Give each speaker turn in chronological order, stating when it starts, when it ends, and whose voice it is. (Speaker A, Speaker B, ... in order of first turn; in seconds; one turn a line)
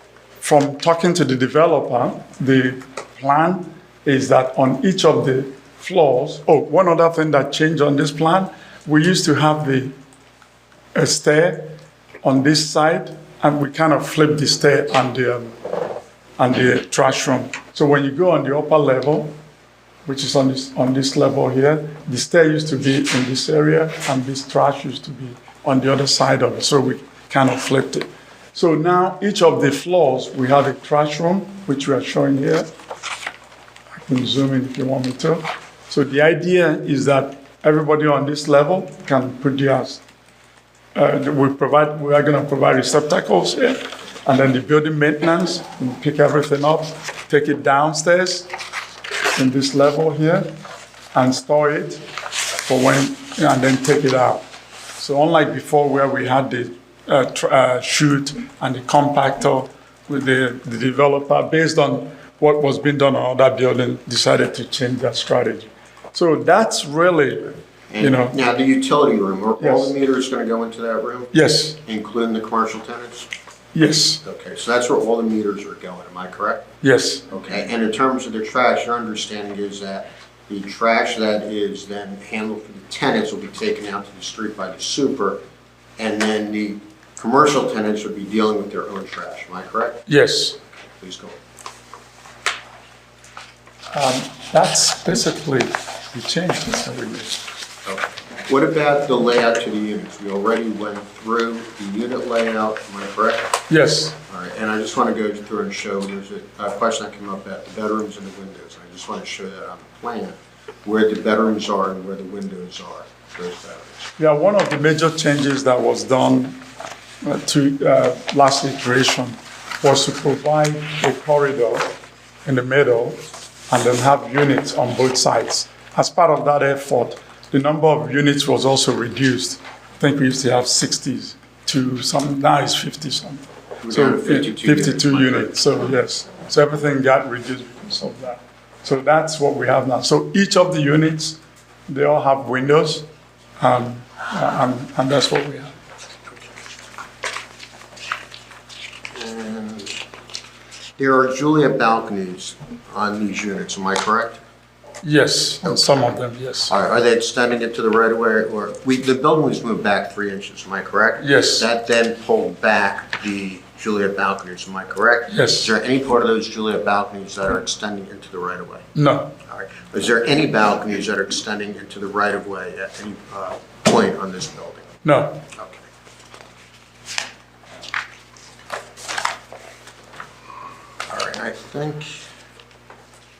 Speaker A: 0.4-9.9
Speaker A: 10.9-15.6
Speaker A: 16.4-19.3
Speaker A: 20.1-32.7
Speaker A: 34.0-40.0
Speaker A: 40.9-48.5
Speaker A: 49.3-50.5
Speaker A: 51.1-52.0
Speaker A: 52.6-54.4
Speaker A: 55.0-68.4
Speaker B: 67.9-73.3
Speaker A: 69.6-69.9
Speaker A: 71.3-71.8
Speaker A: 73.7-74.2
Speaker B: 74.2-76.6
Speaker A: 76.8-77.3
Speaker B: 77.3-85.4
Speaker B: 86.0-90.0
Speaker A: 90.1-90.6
Speaker B: 91.0-91.4
Speaker A: 93.9-97.4
Speaker B: 97.8-103.5
Speaker A: 103.7-104.2
Speaker B: 104.3-114.1
Speaker A: 114.2-116.6
Speaker A: 117.2-121.9
Speaker A: 122.5-143.1
Speaker B: 133.8-135.9
Speaker A: 143.6-145.7
Speaker B: 149.1-150.0
Speaker B: 151.0-154.4
Speaker A: 155.0-156.7
Speaker B: 155.6-156.0
Speaker B: 156.7-168.8
Speaker A: 161.2-161.7
Speaker A: 165.3-165.7
Speaker A: 168.9-169.3
Speaker B: 169.4-174.9
Speaker A: 175.0-175.4
Speaker B: 175.5-175.8
Speaker B: 181.1-182.2